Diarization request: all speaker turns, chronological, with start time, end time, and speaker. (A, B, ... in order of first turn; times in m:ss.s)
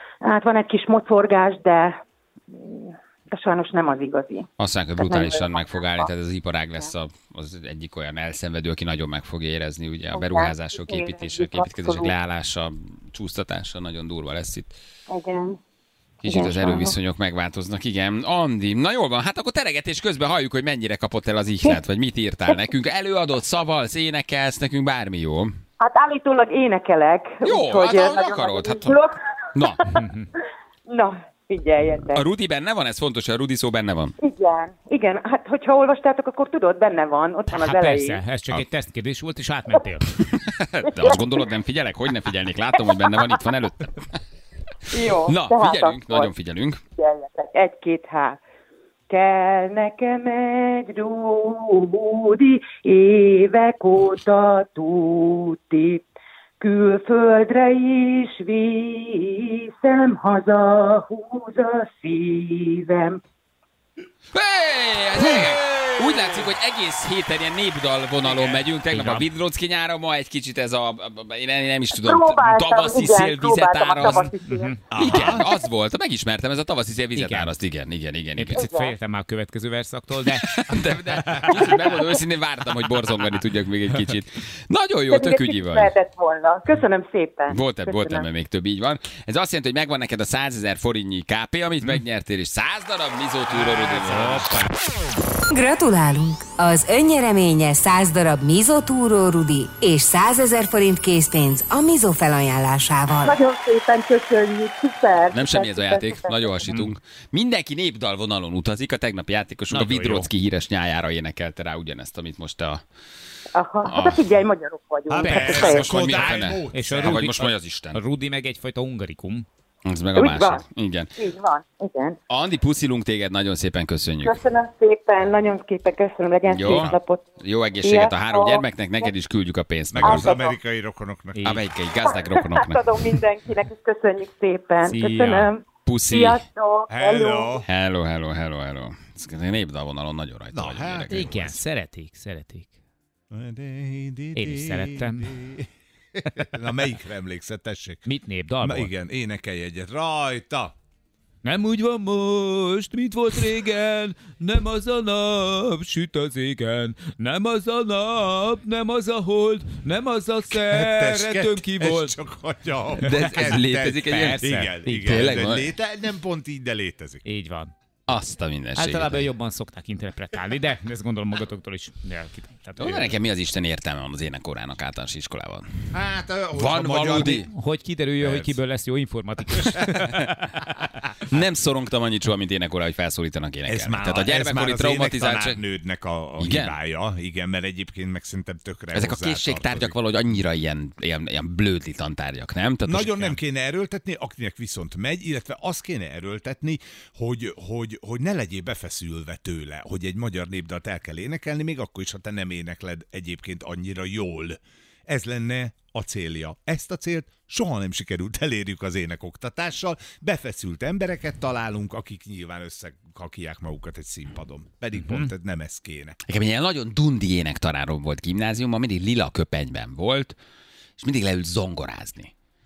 0:00.2-0:02.0 A
0:02.5-0:06.0 A
0:04.6-0:14.7 B
0:10.1-0:12.1 A
0:15.1-0:15.6 A
0:16.2-0:16.9 A
0:16.2-0:25.5 B
0:25.8-0:30.0 A
0:27.4-0:29.0 B
0:29.5-0:29.9 B
0:29.9-0:30.3 C
0:30.9-0:32.2 A
0:32.1-0:34.1 B
0:34.2-0:38.2 A
0:37.5-0:40.2 C
0:40.4-0:44.0 B
0:41.0-0:41.3 A
0:44.9-0:46.3 A
0:45.3-0:46.8 B
0:47.0-0:48.4 A
0:49.1-0:56.0 A
0:56.6-1:03.2 A
1:04.3-1:14.3 B
1:08.2-1:09.3 C
1:11.9-1:14.7 A
1:14.4-1:15.3 C
1:14.9-1:15.4 D
1:14.9-1:18.6 B
1:17.2-1:17.5 C
1:18.4-1:20.8 C
1:18.5-1:18.9 A
1:20.3-1:25.9 B
1:21.3-1:21.9 C
1:21.6-1:22.0 A
1:25.1-1:28.2 A
1:27.5-1:34.7 B
1:33.5-1:34.7 C
1:35.5-1:43.4 E
1:43.2-1:46.5 A
1:45.3-1:52.8 B
1:46.7-1:46.9 C
1:49.7-1:50.3 C
1:53.5-1:55.9 A
1:53.8-1:54.2 B
1:55.1-1:57.5 D
1:55.2-1:55.8 C
1:55.3-1:58.0 B
1:56.7-1:59.4 C
1:59.8-2:01.1 B
2:00.1-2:00.6 A
2:01.2-2:02.2 A
2:02.3-2:04.4 B
2:04.2-2:07.2 A
2:06.5-2:10.4 B
2:07.8-2:09.1 A
2:09.9-2:11.6 D
2:10.0-2:10.6 A
2:11.3-2:11.6 C
2:11.4-2:12.8 B
2:12.1-2:17.6 A
2:14.8-2:15.5 C
2:15.8-2:16.4 B
2:16.9-2:17.6 D
2:17.6-2:21.6 B
2:20.5-2:21.6 D
2:21.1-2:22.7 C
2:23.3-2:30.7 D
2:24.3-2:25.4 C
2:28.0-2:28.9 C
2:31.4-2:42.2 C
2:40.5-2:47.2 D
2:43.0-2:45.4 C
2:43.0-2:44.4 B
2:45.0-2:45.7 B
2:47.2-2:47.7 C
2:48.1-2:49.2 B
2:48.8-2:53.1 C
2:52.8-2:55.7 B
2:55.9-2:57.5 D
2:56.6-2:57.5 B
2:57.3-3:01.1 C
2:58.2-2:58.6 D
2:59.6-3:00.2 D
3:01.3-3:05.6 B
3:03.7-3:10.0 D
3:06.4-3:06.7 B
3:08.9-3:13.4 B
3:12.8-3:36.2 D
3:35.0-3:35.3 C
3:36.3-3:40.4 B
3:41.0-3:42.3 B